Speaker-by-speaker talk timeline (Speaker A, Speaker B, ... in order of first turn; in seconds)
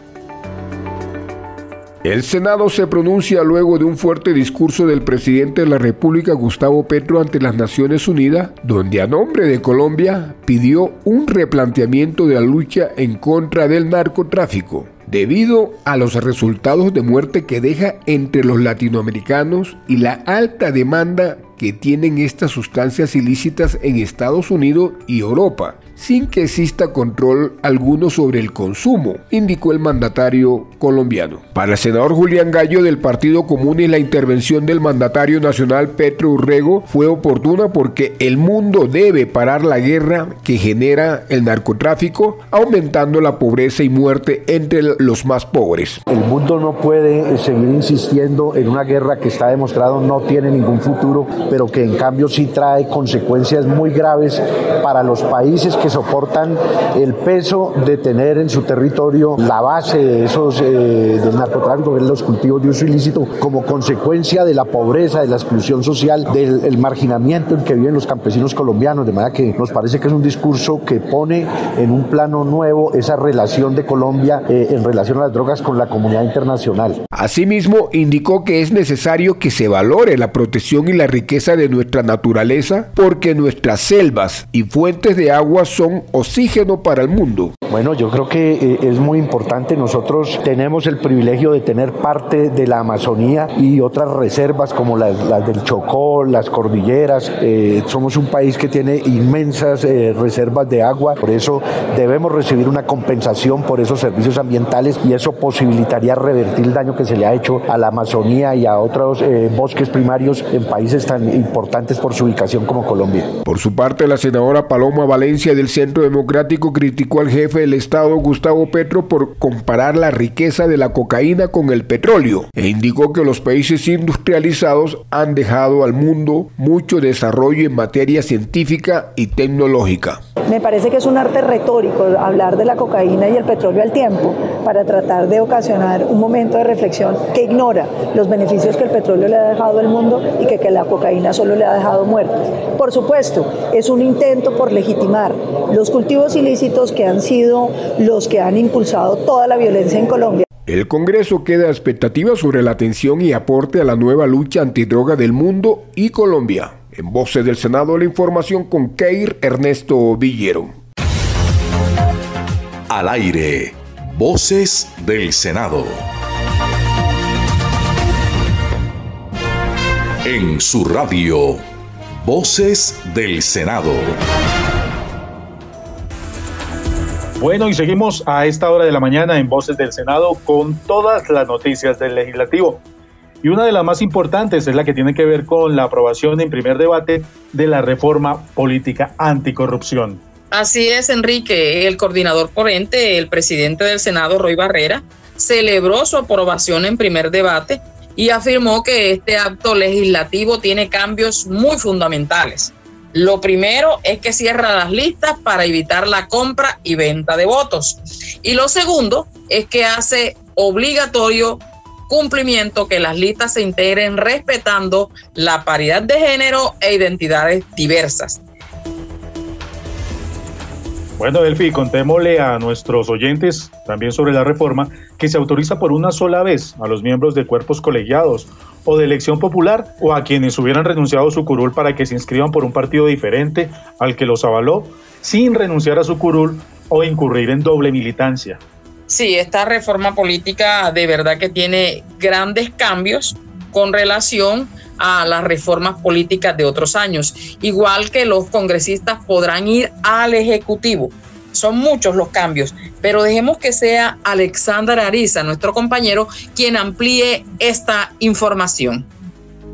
Speaker A: 2.0-46.0, 77.1-87.5, 113.4-130.2, 150.7-160.8
Speaker B: 46.1-77.0, 87.7-113.4
Speaker C: 130.5-150.5
Speaker D: 162.9-166.1, 170.2-171.7, 172.2-174.2
Speaker E: 177.4-182.8, 183.4-190.2, 221.2-238.6
Speaker F: 190.5-218.4, 239.1-259.1